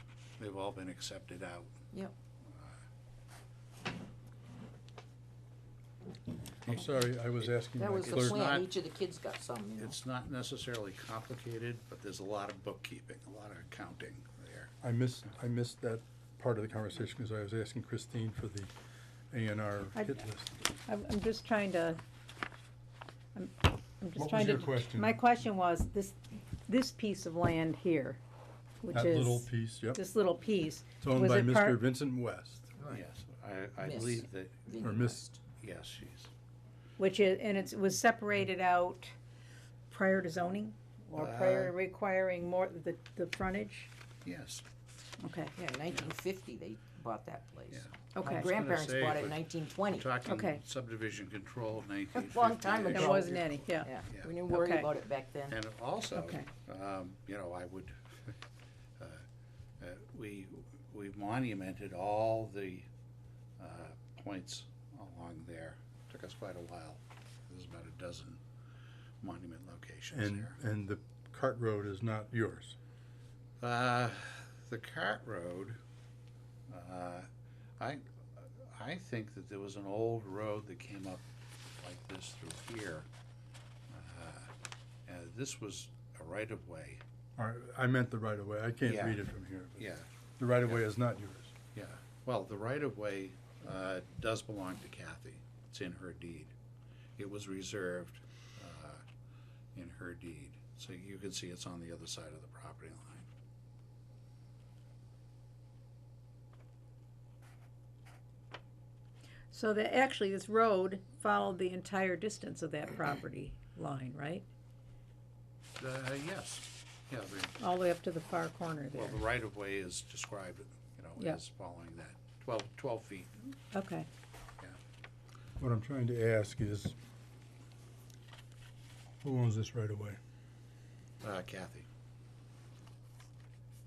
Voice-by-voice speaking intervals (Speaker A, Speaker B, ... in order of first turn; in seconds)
Speaker A: 0.4-1.8, 2.5-2.8, 8.0-8.7, 9.8-14.7, 32.9-34.7, 35.5-36.3, 41.1-41.7, 44.2-44.6, 47.7-54.3, 55.5-58.0, 59.0-59.2, 59.8-62.9, 63.6-68.4, 69.2-70.6, 73.6-75.8, 76.7-77.3, 77.8-81.2, 81.8-83.1, 83.9-84.5, 85.1-87.0, 88.8-89.2, 89.8-90.1, 91.7-96.5, 97.2-99.0, 99.8-103.3, 115.8-117.6, 118.9-123.5, 131.2-131.9
Speaker B: 6.6-8.6, 14.8-18.7, 19.3-20.6, 24.2-25.2, 28.9-30.0, 31.0-33.0, 34.8-35.2, 70.1-72.8, 87.4-89.9, 90.4-91.5, 125.6-127.0, 129.2-130.2
Speaker C: 7.8-10.0, 33.8-35.4, 45.6-50.1, 52.1-55.6
Speaker D: 20.9-22.0, 23.4-28.2, 28.8-31.8, 37.0-39.1, 39.9-43.9, 45.2-45.5, 48.1-48.5, 50.3-50.6, 52.9-53.9, 54.5-54.9, 56.2-56.5, 109.5-114.5, 117.6-119.2, 123.7-124.1